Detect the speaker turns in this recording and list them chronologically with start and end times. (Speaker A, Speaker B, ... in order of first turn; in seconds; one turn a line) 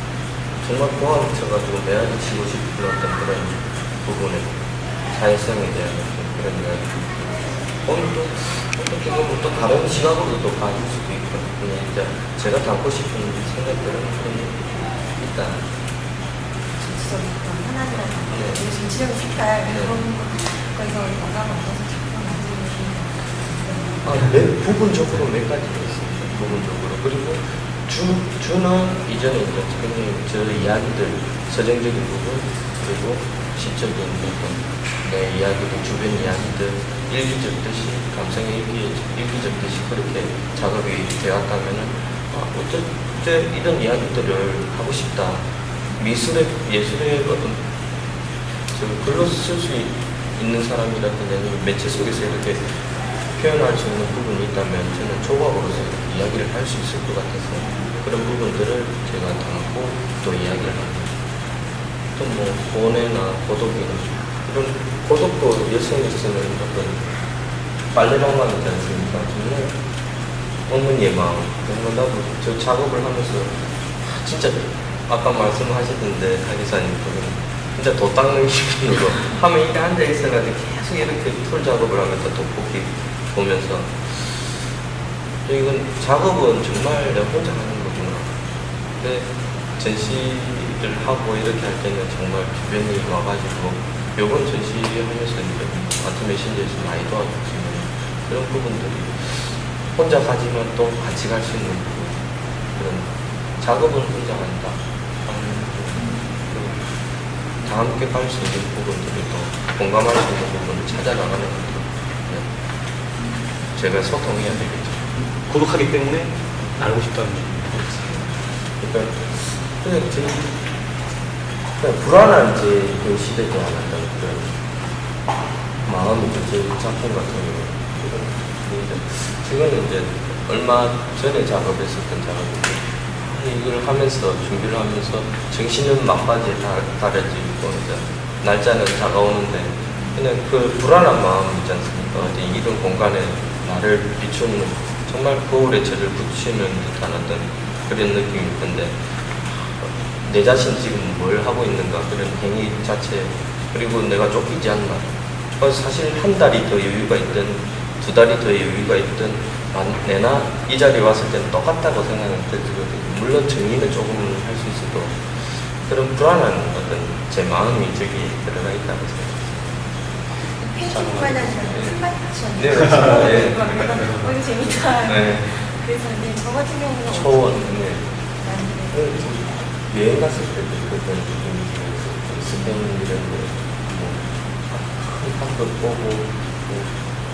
Speaker A: 0.6-4.5
Speaker A: 5.1-15.6
Speaker B: 16.8-24.1
Speaker A: 18.3-18.7
Speaker A: 19.6-20.0
Speaker A: 24.0-45.4
Speaker A: 46.0-47.6
Speaker A: 48.7-52.6
Speaker A: 53.4-61.1
Speaker A: 62.1-67.0
Speaker A: 67.9-69.7
Speaker A: 70.7-73.5
Speaker A: 74.0-84.3
Speaker A: 85.5-88.3
Speaker A: 89.0-89.3
Speaker A: 89.8-102.2
Speaker A: 102.8-103.0
Speaker A: 103.6-106.7
Speaker A: 107.6-112.4
Speaker A: 113.8-115.0
Speaker C: 115.2-118.2
Speaker A: 118.8-120.5
Speaker A: 121.8-124.5
Speaker A: 125.8-149.0
Speaker A: 149.5-169.6
Speaker B: 170.6-177.7
Speaker A: 170.9-172.0
Speaker A: 172.6-174.1
Speaker A: 175.1-175.5
Speaker A: 177.1-178.0
Speaker B: 178.4-179.0
Speaker A: 178.9-184.2
Speaker A: 184.7-186.9